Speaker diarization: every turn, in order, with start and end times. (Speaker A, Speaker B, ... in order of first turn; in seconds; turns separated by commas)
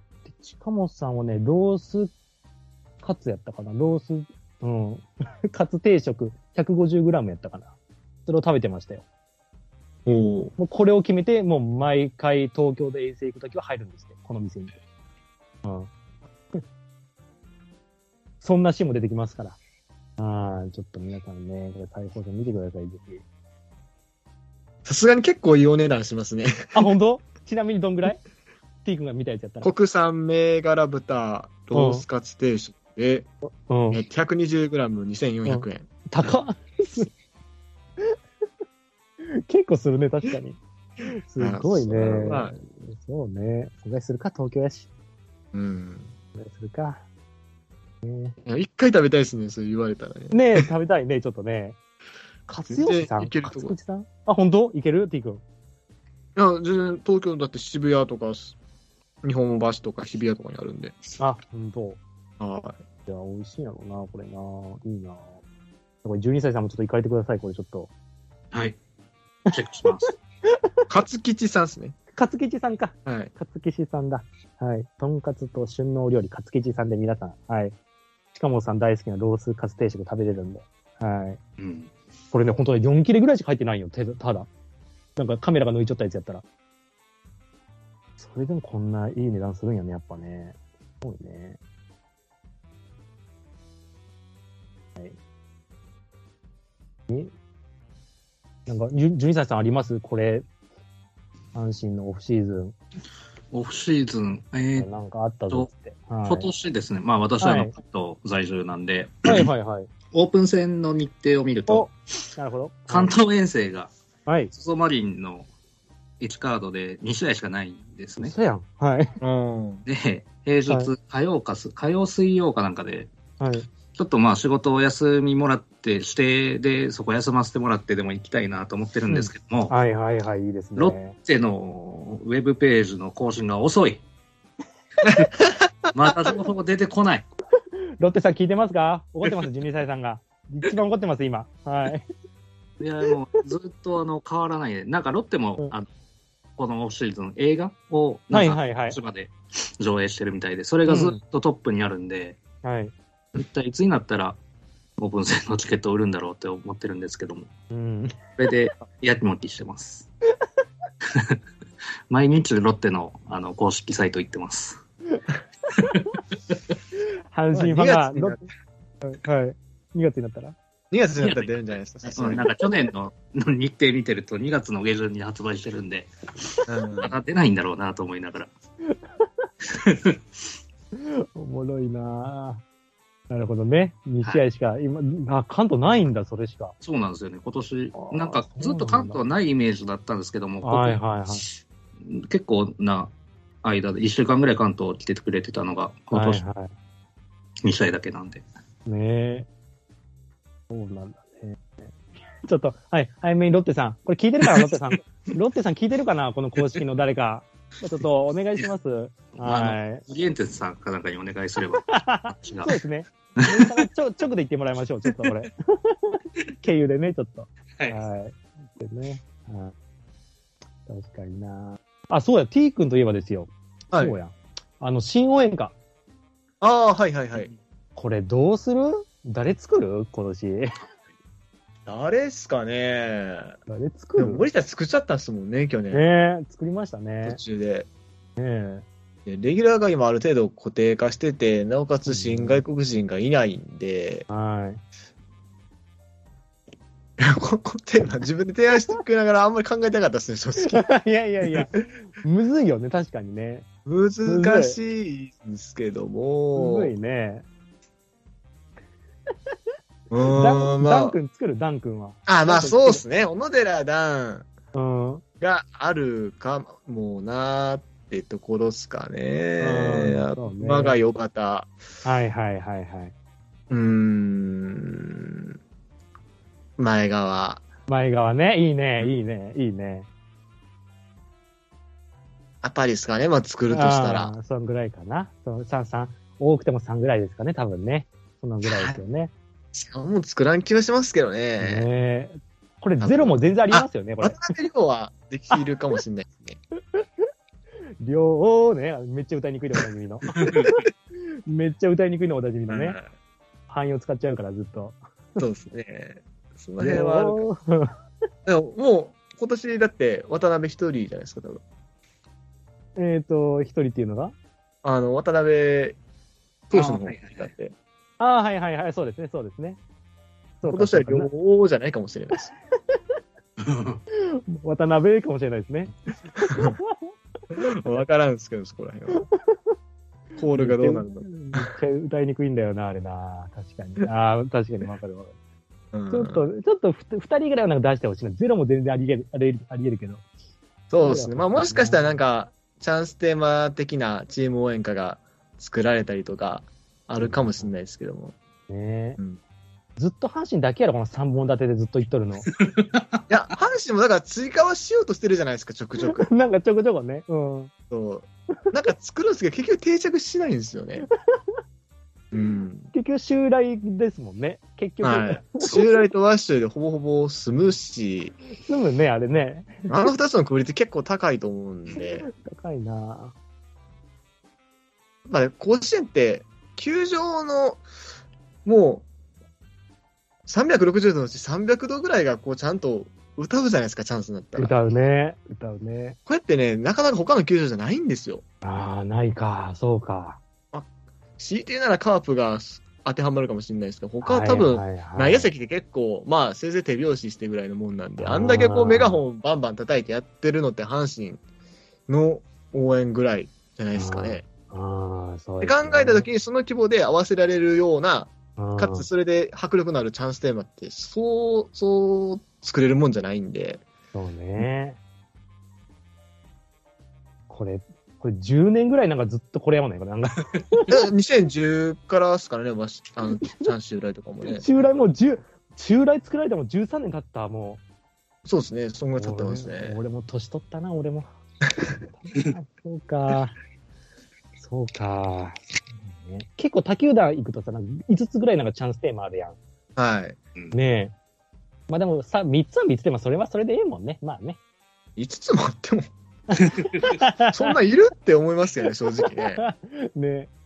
Speaker A: 0.3-2.1, Speaker A: 3.0-7.7, Speaker A: 8.3-9.0, Speaker B: 10.1-10.5, Speaker A: 10.6-14.7, Speaker A: 15.6-15.9, Speaker A: 18.4-19.6, Speaker A: 20.2-23.2, Speaker B: 24.9-26.9, Speaker A: 26.7-28.2, Speaker A: 28.8-29.7, Speaker B: 29.6-33.3, Speaker A: 31.7-32.0, Speaker A: 33.7-34.0, Speaker B: 33.9-35.9, Speaker A: 35.5-37.1, Speaker A: 39.4-44.9, Speaker B: 41.4-42.5, Speaker B: 45.5-46.1, Speaker A: 46.4-47.0, Speaker A: 48.0-48.4, Speaker B: 48.5-50.7, Speaker A: 50.3-51.8, Speaker A: 52.5-55.4, Speaker B: 52.7-53.8, Speaker B: 56.4-58.6, Speaker B: 59.2-61.0, Speaker A: 61.2-62.0, Speaker B: 62.4-62.8, Speaker A: 63.1-65.4, Speaker A: 66.0-67.9, Speaker C: 68.5-68.8, Speaker C: 69.5-70.1, Speaker B: 70.9-72.0, Speaker A: 72.1-77.8, Speaker B: 73.1-73.3, Speaker A: 78.3-81.4, Speaker C: 81.6-81.9, Speaker A: 82.3-84.5, Speaker A: 85.2-86.4, Speaker A: 88.2-91.6, Speaker A: 98.7-100.5, Speaker A: 101.5-102.8, Speaker C: 103.5-104.9, Speaker A: 104.8-106.5, Speaker C: 106.3-109.5, Speaker A: 107.4-107.7, Speaker A: 109.2-109.9, Speaker C: 110.1-111.9, Speaker A: 111.7-113.2, Speaker C: 112.9-113.9, Speaker A: 114.3-114.5, Speaker C: 114.5-115.5, Speaker C: 116.2-118.3, Speaker A: 118.2-119.2, Speaker B: 119.2-119.8, Speaker C: 119.9-123.1, Speaker A: 123.4-123.7, Speaker C: 123.9-129.7, Speaker A: 129.1-131.2, Speaker C: 130.8-134.0, Speaker B: 135.0-135.5, Speaker C: 135.9-137.3, Speaker A: 138.0-142.1, Speaker C: 142.8-145.9, Speaker C: 146.6-152.4, Speaker A: 148.3-149.0, Speaker A: 150.9-151.2, Speaker A: 152.6-152.9, Speaker C: 153.3-154.4, Speaker C: 155.0-157.5, Speaker A: 157.7-158.2, Speaker C: 158.4-160.1, Speaker C: 161.1-161.4, Speaker C: 162.1-164.8, Speaker C: 165.8-166.6, Speaker A: 167.3-168.4, Speaker B: 167.5-168.4, Speaker A: 169.0-170.6, Speaker B: 170.9-172.5, Speaker C: 171.2-171.6, Speaker C: 172.2-178.5, Speaker B: 176.7-177.1, Speaker A: 178.9-179.2, Speaker C: 179.7-180.2, Speaker A: 181.0-182.6, Speaker A: 183.3-186.8, Speaker C: 186.8-191.5, Speaker A: 187.9-189.2, Speaker A: 190.6-191.4, Speaker C: 192.1-193.1, Speaker C: 193.6-196.4, Speaker A: 196.1-196.7, Speaker C: 197.6-198.4, Speaker A: 198.9-199.5, Speaker A: 200.7-201.9, Speaker A: 202.5-210.0, Speaker C: 204.5-204.8, Speaker C: 209.4-212.8, Speaker A: 211.8-219.7, Speaker C: 213.4-213.8, Speaker A: 220.9-225.7, Speaker B: 223.9-224.2, Speaker B: 226.6-227.5, Speaker A: 228.0-230.7, Speaker B: 231.9-233.6, Speaker A: 233.7-234.4, Speaker B: 234.2-236.0, Speaker A: 235.9-237.4, Speaker B: 237.2-237.9, Speaker A: 238.4-238.8, Speaker B: 239.3-244.2, Speaker A: 242.1-242.6, Speaker A: 244.3-244.8, Speaker B: 247.2-250.9, Speaker A: 250.6-253.7, Speaker B: 251.4-251.8, Speaker B: 253.9-256.9, Speaker A: 254.3-254.8, Speaker A: 256.6-257.5, Speaker B: 260.1-261.2, Speaker A: 260.2-263.0, Speaker B: 262.3-264.5, Speaker A: 264.8-265.2, Speaker B: 265.4-271.7, Speaker A: 269.6-271.0, Speaker A: 272.1-273.1, Speaker B: 273.7-275.6, Speaker B: 276.8-277.6, Speaker A: 277.9-280.1, Speaker B: 282.6-284.3, Speaker A: 283.7-289.3, Speaker B: 288.6-289.0, Speaker B: 289.7-291.9, Speaker A: 291.6-294.5, Speaker B: 293.0-296.6, Speaker A: 296.9-297.2, Speaker A: 298.0-300.7, Speaker C: 300.4-300.7, Speaker B: 300.5-300.7, Speaker A: 301.5-303.0, Speaker B: 302.7-303.0, Speaker A: 303.7-305.0, Speaker B: 305.4-307.5, Speaker A: 306.8-307.9, Speaker B: 308.5-311.6, Speaker A: 313.0-314.4, Speaker B: 314.8-316.0, Speaker B: 316.7-317.7, Speaker C: 316.7-317.5, Speaker A: 318.2-319.8, Speaker A: 320.6-321.3, Speaker B: 320.7-322.5, Speaker C: 323.6-324.0, Speaker A: 324.2-327.1, Speaker B: 326.5-326.8, Speaker B: 327.5-329.3, Speaker B: 330.4-331.6, Speaker A: 330.5-335.4, Speaker B: 335.9-336.5, Speaker A: 336.1-340.2, Speaker B: 340.9-348.4, Speaker A: 341.0-342.2, Speaker A: 347.2-347.7, Speaker A: 348.7-349.2, Speaker A: 350.0-352.5, Speaker C: 352.5-353.2, Speaker B: 353.3-356.3, Speaker A: 356.0-357.7, Speaker B: 357.9-361.1, Speaker B: 362.3-362.9, Speaker A: 362.9-365.8, Speaker B: 365.0-368.3, Speaker A: 368.6-369.9, Speaker B: 369.9-372.3, Speaker A: 372.0-373.4, Speaker B: 375.3-377.8, Speaker B: 378.6-379.1, Speaker B: 380.5-384.7, Speaker A: 384.6-386.2, Speaker B: 386.3-388.4, Speaker A: 388.6-390.4, Speaker B: 390.7-401.4, Speaker A: 394.2-395.5, Speaker A: 398.2-399.2, Speaker B: 402.1-404.4, Speaker A: 403.9-406.3, Speaker B: 405.6-413.8, Speaker A: 408.6-409.1, Speaker A: 414.1-415.0, Speaker A: 417.5-420.9, Speaker B: 420.9-424.7, Speaker A: 423.4-423.7, Speaker A: 424.5-427.8, Speaker B: 428.5-430.0, Speaker A: 429.2-431.3, Speaker A: 432.1-433.6, Speaker A: 434.6-439.6, Speaker B: 440.0-440.4, Speaker A: 440.7-441.1, Speaker A: 441.9-444.6, Speaker B: 445.2-446.1, Speaker A: 446.5-447.8, Speaker C: 446.8-447.1, Speaker B: 447.5-449.6, Speaker A: 449.5-450.5